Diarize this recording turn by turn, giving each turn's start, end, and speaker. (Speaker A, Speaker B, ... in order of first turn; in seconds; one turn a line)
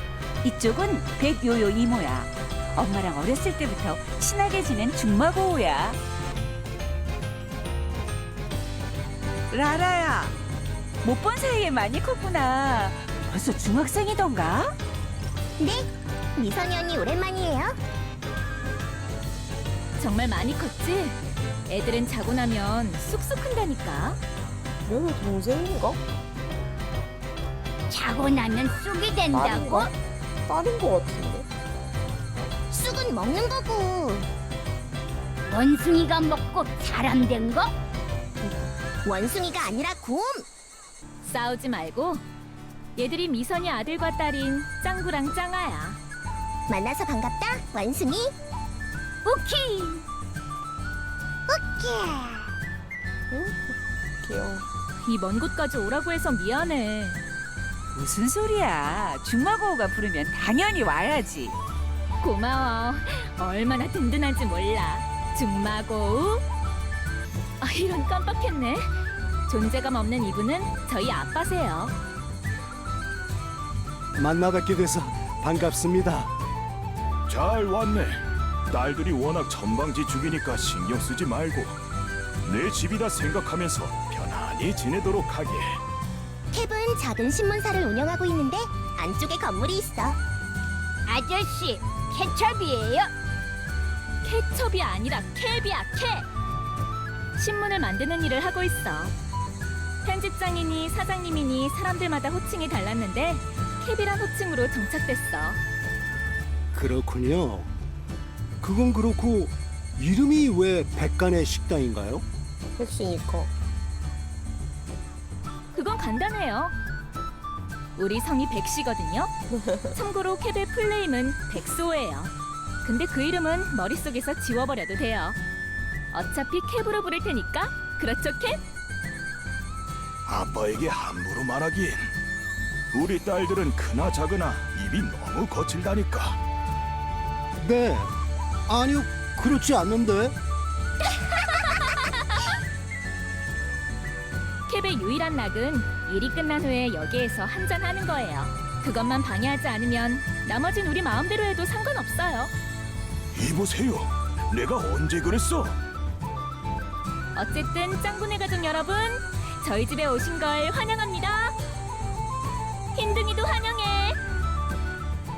Speaker A: 0.4-6.0
Speaker A: 9.5-10.4
Speaker A: 11.0-14.7
Speaker B: 15.6-17.8
Speaker C: 20.0-21.2
Speaker C: 21.7-24.2
Speaker D: 24.9-26.0
Speaker E: 27.9-29.9
Speaker D: 29.3-29.9
Speaker D: 30.5-31.5
Speaker B: 32.7-34.3
Speaker E: 35.4-37.7
Speaker B: 39.0-40.5
Speaker C: 41.2-42.2
Speaker C: 43.0-46.0
Speaker B: 46.7-48.3
Speaker E: 49.2-50.0
Speaker B: 51.5-52.5
Speaker D: 53.3-54.7
Speaker C: 55.0-57.2
Speaker A: 57.9-61.6
Speaker C: 62.2-66.4
Speaker C: 67.6-69.0
Speaker C: 69.5-72.0
Speaker F: 74.2-76.3
Speaker G: 77.3-81.8
Speaker G: 82.4-85.8
Speaker B: 86.5-90.2
Speaker E: 91.1-93.1
Speaker C: 94.2-96.3
Speaker C: 97.4-99.1
Speaker C: 100.0-105.6
Speaker F: 106.7-107.7
Speaker F: 108.6-112.3
Speaker D: 112.8-113.5
Speaker C: 115.7-116.7
Speaker C: 118.0-119.3
Speaker D: 119.5-120.0
Speaker C: 120.0-122.3
Speaker C: 122.8-125.4
Speaker C: 126.1-128.6
Speaker G: 130.3-132.0
Speaker G: 132.9-136.4
Speaker F: 137.6-138.2
Speaker F: 138.7-140.4
Speaker C: 144.7-152.5
Speaker G: 153.3-155.8
Speaker C: 157.4-161.6
Speaker C: 162.9-164.2